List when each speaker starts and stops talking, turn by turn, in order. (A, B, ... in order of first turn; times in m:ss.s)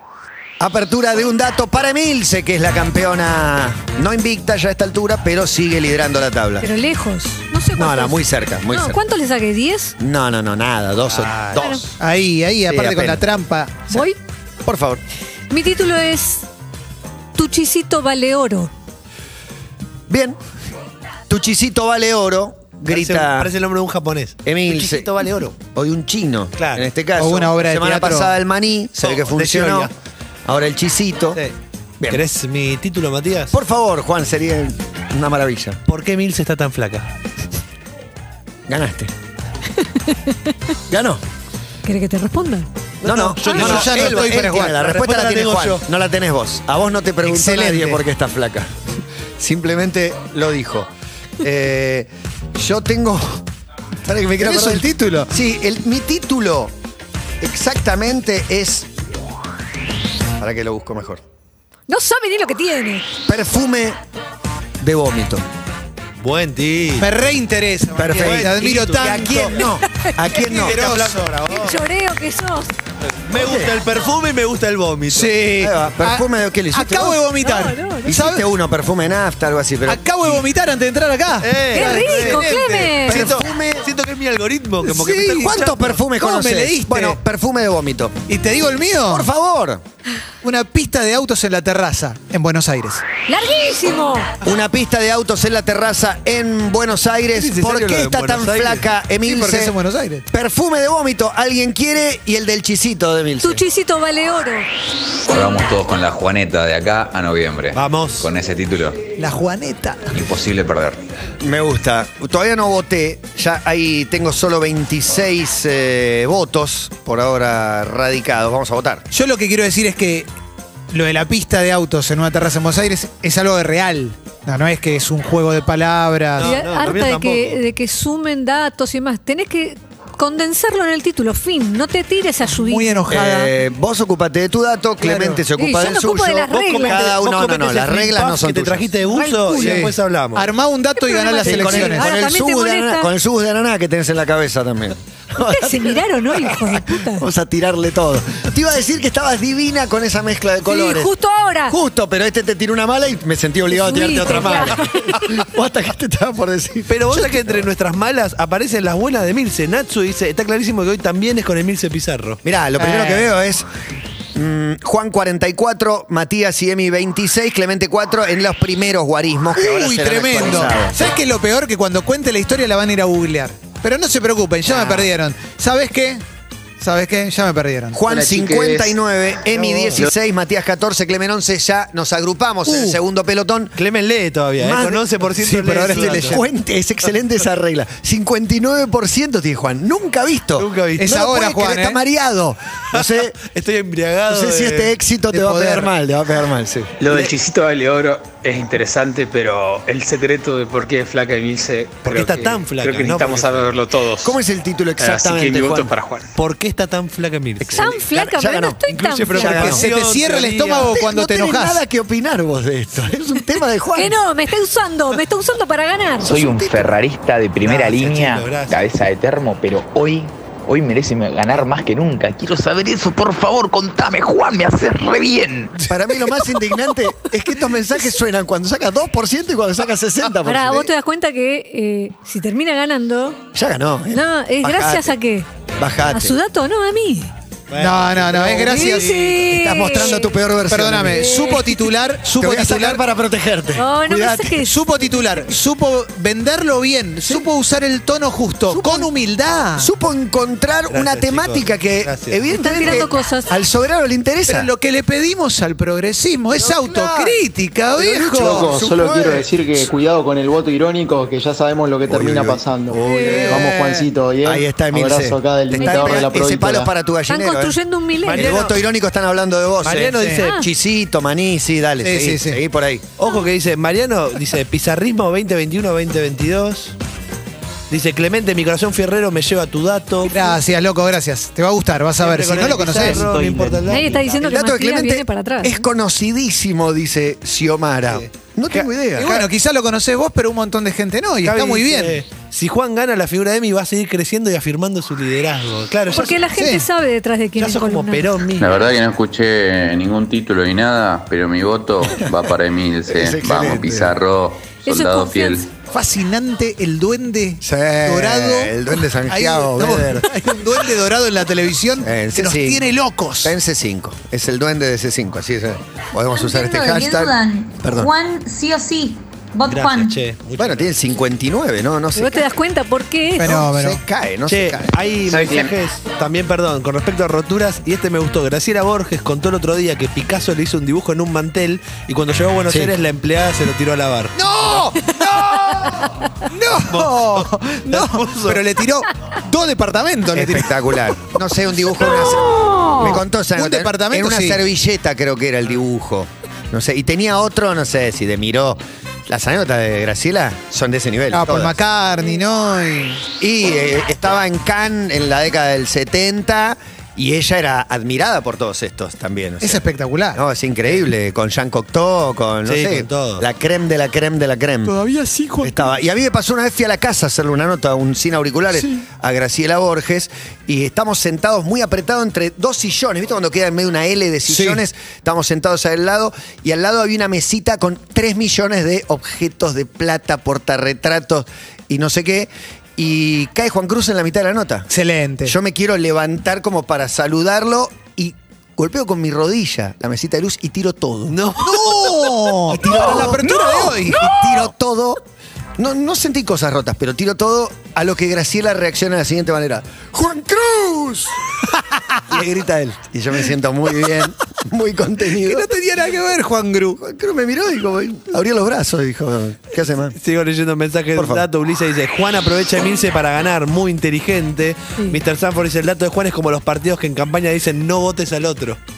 0:00.6-0:06.7 A
0:06.6-0:10.0 B
0:07.8-0:09.0 A
0:10.0-0:12.0 A
0:11.1-0:11.6 C
0:11.6-0:11.8 B
0:12.0-0:14.0 D
0:12.6-0:13.2 A
0:13.9-0:14.2 B
0:14.6-0:15.0 A
0:15.5-0:16.5 B
0:17.3-0:18.7 B
0:20.1-0:20.4 A
0:21.3-0:23.5 A
0:22.9-0:25.6 C
0:24.4-0:29.9 A
0:26.6-0:26.9 C
0:27.2-0:28.3 D
0:29.0-0:29.9 C
0:30.4-0:31.4 A
0:32.1-0:33.5 C
0:33.5-0:35.8 A
0:35.9-0:37.1 C
0:38.7-0:39.1 A
0:39.8-0:40.5 B
0:40.9-0:41.2 A
0:41.8-0:42.7 B
0:43.0-0:45.8 C
0:43.0-0:48.7 A
0:43.4-0:44.8 D
0:47.2-0:48.0 D
0:49.4-0:50.9 A
0:51.4-0:53.4 A
0:54.0-0:56.7 A
0:54.4-0:55.3 D
0:57.4-0:58.9 A
1:00.4-1:01.2 A
1:01.9-1:03.0 B
1:03.2-1:04.0 A
1:04.8-1:05.4 A
1:06.2-1:07.1 C
1:07.0-1:09.6 D
1:07.9-1:10.8 A
1:08.1-1:09.5 C
1:09.8-1:10.1 B
1:10.4-1:11.8 C
1:10.5-1:11.3 D
1:11.5-1:12.7 B
1:13.1-1:15.4 C
1:13.3-1:13.7 A
1:15.1-1:18.4 D
1:15.6-1:17.2 A
1:17.4-1:18.1 B
1:18.0-1:20.3 A
1:19.8-1:22.6 D
1:21.4-1:26.0 C
1:21.7-1:23.2 B
1:23.0-1:23.9 A
1:24.8-1:25.5 D
1:25.3-1:28.2 A
1:26.1-1:27.2 D
1:28.3-1:29.3 D
1:29.1-1:29.8 A
1:30.4-1:33.0 D
1:33.3-1:34.3 B
1:34.4-1:39.7 A
1:37.3-1:38.9 C
1:39.2-1:40.2 D
1:40.3-1:43.6 A
1:43.4-1:44.7 B
1:45.3-1:49.0 E
1:47.7-1:48.3 C
1:49.2-1:50.1 D
1:50.1-1:51.1 E
1:51.4-1:59.0 A
1:59.1-2:00.3 D
2:00.9-2:06.5 D
2:06.4-2:07.6 C
2:06.4-2:13.0 B
2:12.5-2:13.5 D
2:13.1-2:18.9 A
2:15.0-2:15.4 D
2:15.6-2:17.0 B
2:16.5-2:20.5 C
2:19.0-2:19.8 B
2:19.6-2:22.0 D
2:21.0-2:23.1 B
2:21.4-2:31.1 A
2:25.4-2:27.2 B
2:30.6-2:31.8 B
2:31.7-2:37.6 A
2:33.7-2:35.3 B
2:33.9-2:35.2 C
2:36.9-2:42.4 C
2:42.4-2:43.7 A
2:42.8-2:43.3 D
2:44.3-2:51.0 A
2:49.6-2:56.2 D
2:54.6-2:55.1 A
2:56.8-2:58.0 D
2:57.9-3:03.7 A
2:58.0-2:58.9 F
2:59.5-3:00.1 C
3:02.6-3:03.0 D
3:03.8-3:06.4 C
3:04.6-3:05.0 A
3:05.4-3:06.4 D
3:05.8-3:13.4 A
3:10.6-3:11.1 C
3:11.0-3:12.0 D
3:12.9-3:14.9 C
3:14.3-3:17.0 A
3:15.3-3:15.9 D
3:17.0-3:24.4 F
3:17.1-3:17.3 C
3:22.0-3:23.7 C
3:24.2-3:25.9 A
3:25.0-3:26.3 F
3:26.3-3:27.9 C
3:27.6-3:29.7 B
3:27.8-3:29.9 A
3:28.9-3:31.0 C
3:29.4-3:31.8 D
3:30.9-3:34.2 A
3:33.9-3:36.3 B
3:36.2-3:45.8 G
3:36.2-3:36.9 A
3:37.6-3:38.8 C
3:45.9-3:50.9 A
3:50.4-3:53.4 B
3:53.5-3:55.1 A
3:54.1-3:55.5 B
3:55.8-3:56.4 A
3:56.1-3:57.3 B
3:57.7-3:59.5 C
3:57.8-3:59.0 D
3:58.6-4:00.3 B
3:59.5-4:01.6 A
4:00.7-4:03.0 D
4:01.1-4:01.8 B
4:02.4-4:04.4 A
4:03.8-4:04.8 B
4:04.1-4:09.9 D
4:08.7-4:09.1 B
4:09.8-4:14.7 A
4:10.9-4:12.4 C
4:12.5-4:13.5 B
4:14.5-4:18.7 D
4:16.5-4:17.4 A
4:18.0-4:19.8 A
4:18.4-4:26.9 H
4:22.1-4:23.5 C
4:23.0-4:24.0 D
4:23.1-4:23.6 B
4:24.4-4:27.8 A
4:25.8-4:26.3 B
4:27.3-4:28.5 B
4:28.2-4:28.8 C
4:28.3-4:33.1 A
4:29.8-4:30.5 C
4:30.4-4:30.7 B
4:32.0-4:32.6 D
4:33.2-4:36.9 C
4:37.9-4:40.4 C
4:40.3-4:43.3 D
4:42.2-4:44.5 C
4:42.9-4:43.5 A
4:43.9-4:45.8 B
4:44.4-4:49.5 A
4:48.1-4:48.8 C
4:49.1-4:52.2 D
4:51.4-4:56.4 C
4:56.1-4:58.3 B
4:56.6-4:56.8 D
4:57.6-4:58.8 C
4:58.6-5:05.7 E
5:03.1-5:04.2 A
5:04.8-5:05.7 B
5:05.9-5:13.5 D
5:07.6-5:10.2 A
5:12.0-5:12.8 A
5:13.4-5:18.1 A
5:16.3-5:20.2 I
5:19.7-5:21.0 C
5:20.6-5:22.4 A
5:22.1-5:23.6 B
5:23.4-5:24.0 D
5:23.4-5:25.6 A
5:24.5-5:34.3 C
5:32.7-5:32.9 A
5:34.3-5:40.7 D
5:36.9-5:38.6 C
5:40.3-5:51.8 A
5:43.1-5:44.6 D
5:51.3-5:53.2 D
5:53.4-6:04.9 A
5:59.6-6:00.4 D
6:02.6-6:03.4 C
6:04.8-6:05.8 D
6:05.6-6:24.9 A
6:14.5-6:14.8 D
6:24.9-6:25.5 D
6:25.4-6:31.8 A
6:31.3-6:32.1 C
6:31.6-6:34.4 D
6:32.7-6:35.2 A
6:35.8-6:41.4 A
6:41.9-6:42.2 D
6:42.3-6:45.7 A
6:45.4-6:47.0 D
6:47.0-6:50.2 A
6:50.2-6:58.8 C
6:51.2-6:51.4 A